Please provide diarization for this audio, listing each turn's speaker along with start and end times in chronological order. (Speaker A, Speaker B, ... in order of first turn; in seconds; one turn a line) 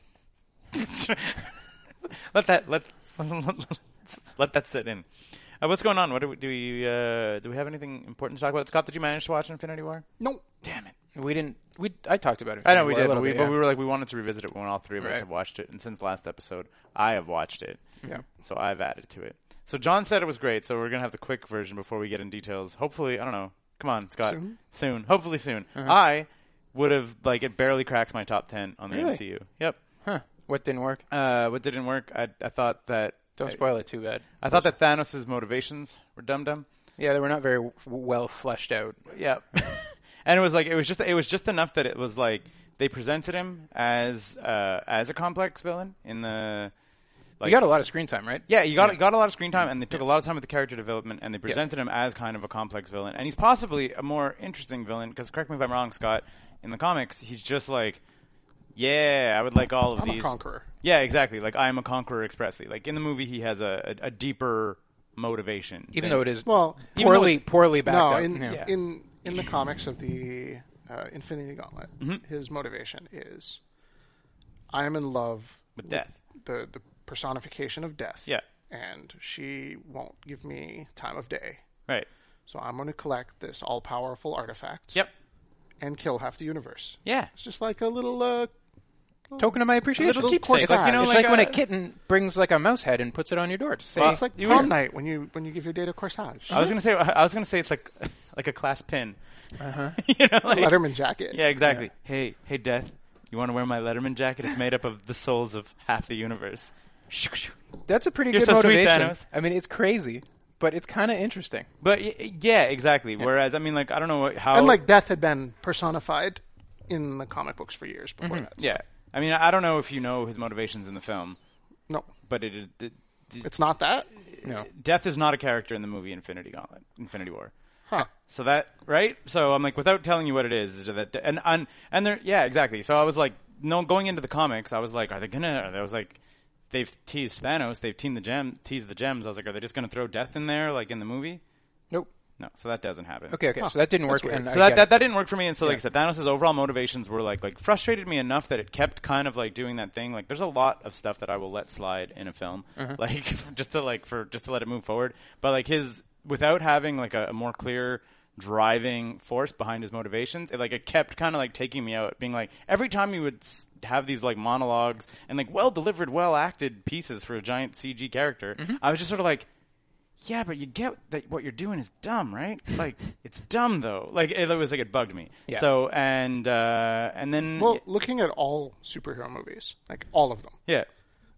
Speaker A: 0.7-5.1
Speaker A: 5.6-10.0
Speaker B: 10.2-10.4
Speaker A: 10.6-10.9
Speaker C: 11.1-13.6
Speaker A: 12.6-29.8
Speaker B: 24.2-24.5
Speaker C: 28.9-29.2
Speaker C: 30.0-31.0
Speaker A: 31.1-33.6
Speaker C: 33.4-34.6
Speaker A: 34.4-36.6
Speaker C: 37.0-39.1
Speaker A: 39.1-46.7
Speaker C: 47.4-49.0
Speaker A: 48.5-58.0
Speaker A: 58.8-66.3
Speaker B: 60.0-60.7
Speaker C: 65.9-68.6
Speaker B: 66.4-67.0
Speaker A: 66.9-67.5
Speaker B: 67.8-73.6
Speaker B: 74.7-81.6
Speaker A: 75.8-76.1
Speaker B: 82.5-85.0
Speaker B: 85.8-88.5
Speaker A: 87.0-87.3
Speaker B: 89.3-91.2
Speaker C: 89.4-94.6
Speaker A: 90.0-91.6
Speaker A: 94.0-94.7
Speaker B: 94.0-96.7
Speaker A: 96.5-99.2
Speaker C: 99.6-100.0
Speaker A: 100.0-107.5
Speaker B: 100.5-101.4
Speaker C: 107.9-111.7
Speaker A: 108.3-109.2
Speaker A: 111.8-114.8
Speaker B: 114.5-118.8
Speaker C: 118.2-118.5
Speaker A: 118.6-121.4
Speaker A: 122.3-123.5
Speaker B: 123.4-124.1
Speaker A: 124.3-127.5
Speaker C: 124.4-124.7
Speaker A: 128.1-136.2
Speaker A: 136.7-141.4
Speaker A: 142.4-143.4
Speaker C: 143.3-145.0
Speaker B: 143.6-144.5
Speaker A: 144.5-169.5
Speaker A: 170.2-177.8
Speaker B: 177.5-180.6